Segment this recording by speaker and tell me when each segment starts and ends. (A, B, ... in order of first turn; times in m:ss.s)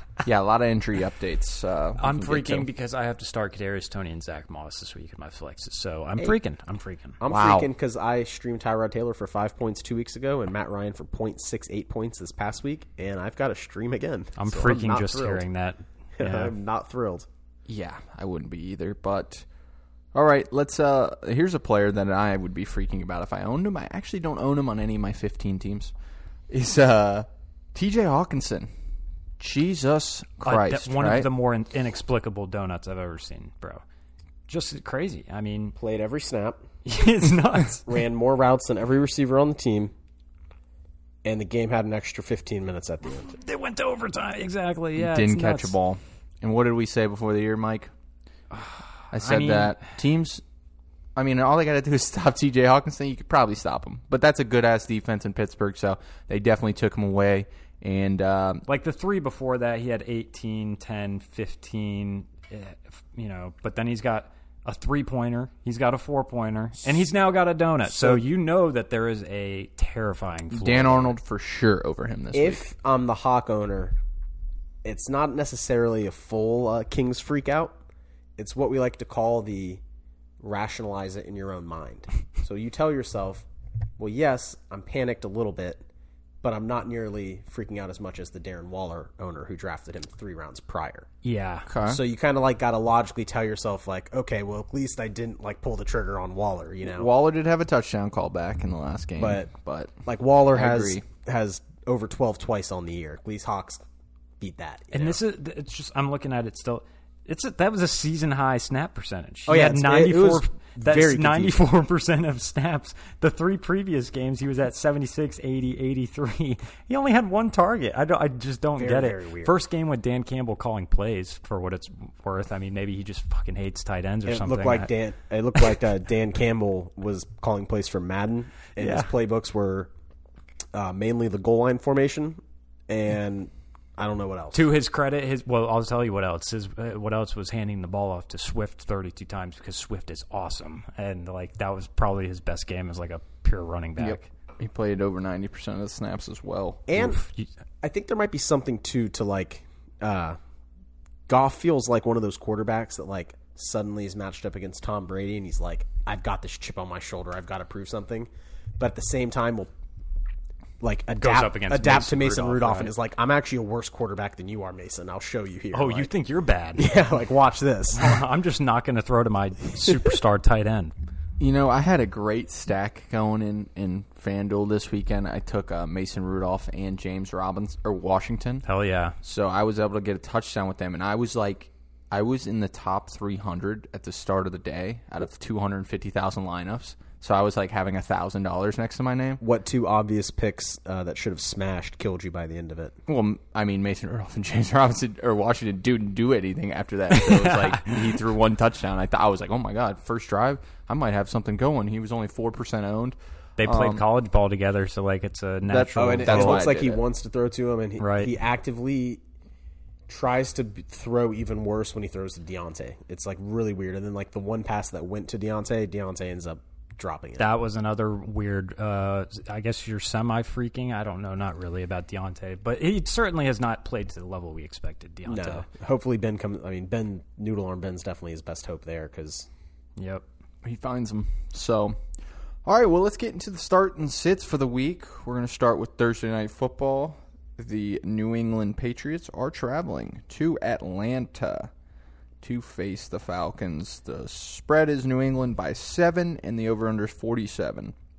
0:00.2-0:02.7 A
0:02.0-0:07.2 B
0:07.2-0:15.4 C
0:07.2-0:07.7 A
0:14.4-0:16.5 B
0:16.2-0:17.2 C
0:17.7-0:19.4 A
0:20.1-0:25.9 A
0:26.5-0:28.7 A
0:29.4-0:31.3 A
0:30.4-0:33.8 B
0:34.5-0:35.8 B
0:35.8-0:36.6 C
0:36.8-0:37.8 B
0:37.8-0:39.9 C
0:41.2-0:43.4 C
0:43.2-0:45.7 B
0:45.0-0:47.9 A
0:48.5-0:49.8 B
0:49.1-0:50.4 A
0:51.2-0:58.6 A
0:58.6-1:11.2 B
1:07.9-1:08.2 C
1:10.5-1:12.6 A
1:12.3-1:14.0 C
1:14.8-1:17.8 C
1:18.4-1:19.8 C
1:20.4-1:23.4 C
1:24.0-1:25.8 C
1:26.4-1:31.1 C
1:31.2-1:31.7 B
1:31.7-1:32.0 A
1:31.8-1:37.1 C
1:36.8-1:39.9 A
1:39.2-1:39.5 C
1:40.0-1:43.8 C
1:40.5-1:41.0 A
1:44.4-1:45.2 C
1:44.9-2:04.9 B
1:49.5-1:51.6 C
1:58.8-1:59.6 C
2:04.3-2:09.9 C
2:08.8-2:09.1 B
2:10.7-2:14.7 C
2:14.5-2:24.3 B
2:24.0-2:26.8 A
2:26.9-2:27.2 C
2:27.0-2:27.5 B
2:27.8-2:30.4 C
2:31.3-2:39.7 C
2:40.8-2:46.1 C
2:41.2-2:42.9 B
2:45.7-2:47.0 B
2:46.8-2:48.2 C
2:47.9-2:50.9 B
2:51.4-2:58.6 A
2:58.6-2:59.2 B
2:59.2-3:09.4 A
3:09.4-3:13.0 C
3:13.1-3:24.0 A
3:17.1-3:18.0 B
3:23.6-3:26.6 B
3:25.6-3:27.0 A
3:26.0-3:29.2 C
3:28.0-3:28.3 B
3:30.1-3:37.5 C
3:37.4-3:45.6 B
3:45.2-3:49.5 C
3:50.0-3:50.2 B
3:50.6-3:51.9 A
3:52.6-4:01.7 A
4:02.4-4:07.9 A